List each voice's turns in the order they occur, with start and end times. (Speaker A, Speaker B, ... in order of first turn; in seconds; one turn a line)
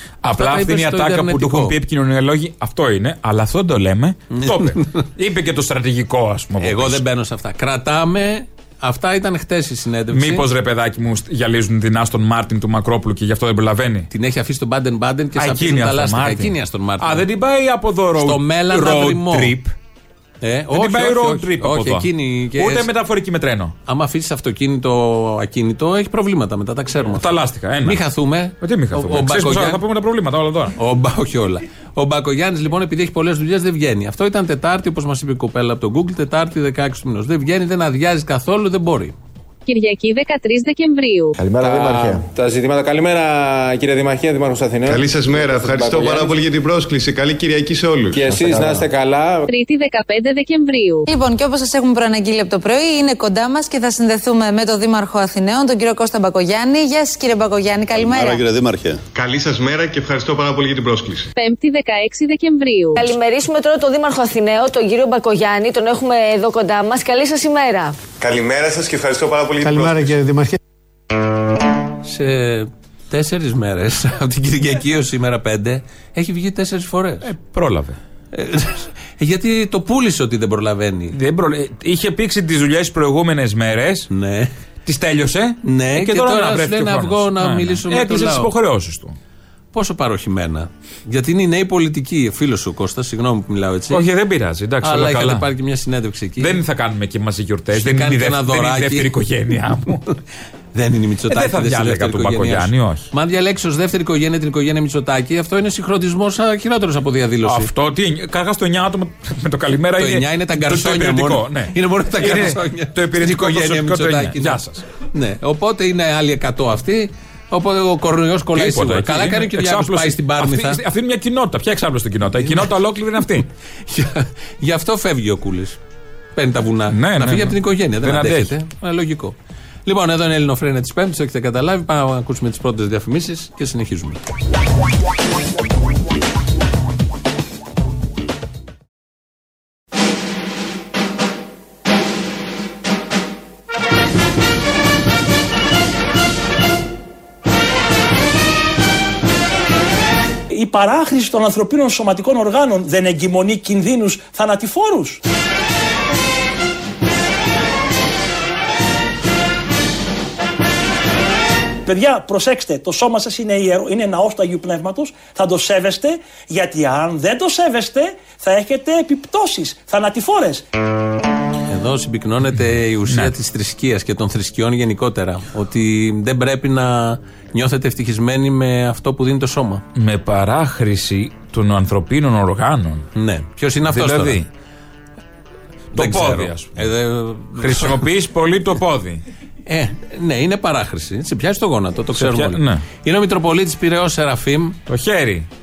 Speaker A: 0.2-7.0
Speaker B: 0.3-1.8
Speaker B: 4.3-5.1
Speaker B: 6.6-10.5
Speaker A: 10.1-14.1
Speaker B: 14.1-17.3
Speaker A: 15.4-19.7
Speaker B: 18.2-19.6
Speaker B: 20.4-22.9
Speaker A: 20.7-23.8
Speaker B: 23.9-27.3
Speaker A: 27.2-28.0
Speaker B: 27.8-29.8
Speaker A: 28.6-30.8
Speaker B: 30.8-39.2
Speaker C: 39.7-41.4
Speaker D: 41.4-42.2
Speaker E: 41.4-46.4
Speaker D: 44.8-48.9
Speaker E: 48.1-49.5
Speaker C: 49.5-51.1
Speaker F: 51.1-58.4
Speaker D: 59.1-61.3
Speaker C: 61.4-63.1
Speaker G: 63.0-68.0
Speaker D: 68.2-70.5
Speaker E: 69.7-70.5
Speaker B: 72.0-77.3
Speaker A: 77.2-78.0
Speaker B: 78.3-81.2
Speaker A: 81.1-84.1
Speaker B: 84.1-84.5
Speaker A: 84.9-89.2
Speaker B: 85.6-88.5
Speaker B: 89.7-94.0
Speaker A: 93.9-95.5
Speaker B: 94.8-96.6
Speaker A: 96.4-100.1
Speaker B: 97.7-99.1
Speaker B: 100.8-107.7
Speaker A: 101.3-103.1
Speaker A: 107.5-114.8
Speaker B: 110.0-120.8
Speaker A: 118.5-123.5
Speaker B: 122.4-122.7
Speaker B: 123.9-125.8
Speaker B: 126.4-134.2
Speaker A: 126.9-128.5
Speaker H: 150.5-155.2
Speaker H: 161.9-170.7
Speaker B: 171.7-179.8
Speaker A: 180.0-183.1
Speaker B: 183.2-184.4
Speaker A: 183.9-184.5
Speaker A: 185.9-186.9
Speaker B: 185.9-188.0
Speaker A: 187.6-189.2
Speaker B: 189.7-194.8
Speaker A: 192.2-192.8
Speaker A: 194.9-195.5